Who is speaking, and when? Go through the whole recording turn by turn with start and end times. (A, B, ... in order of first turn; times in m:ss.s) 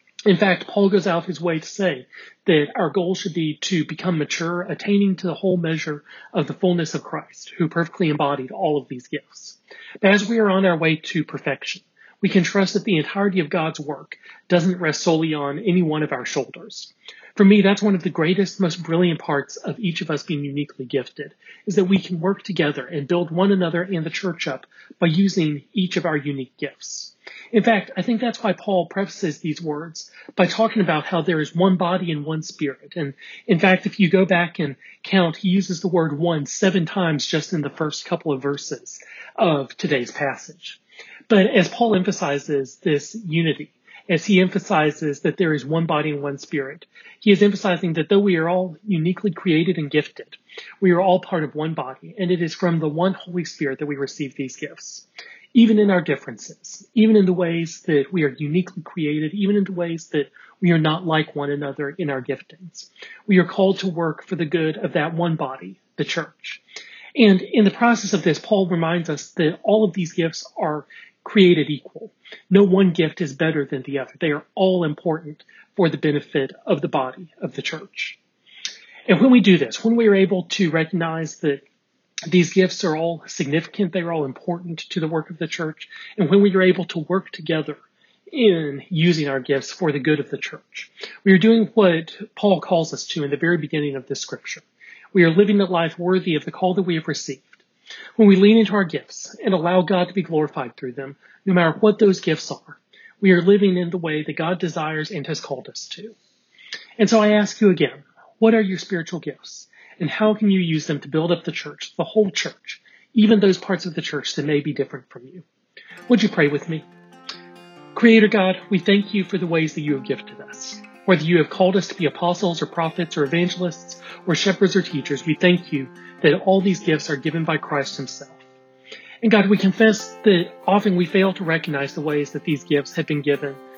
0:00.2-1:06.6 A
1:07.2-1:18.2 A
1:19.1-1:21.6 A
1:22.3-1:37.6 A
1:38.2-1:46.1 A
1:47.0-1:55.4 A
1:56.1-1:56.9 A
1:57.9-2:08.4 A
2:09.2-2:13.6 A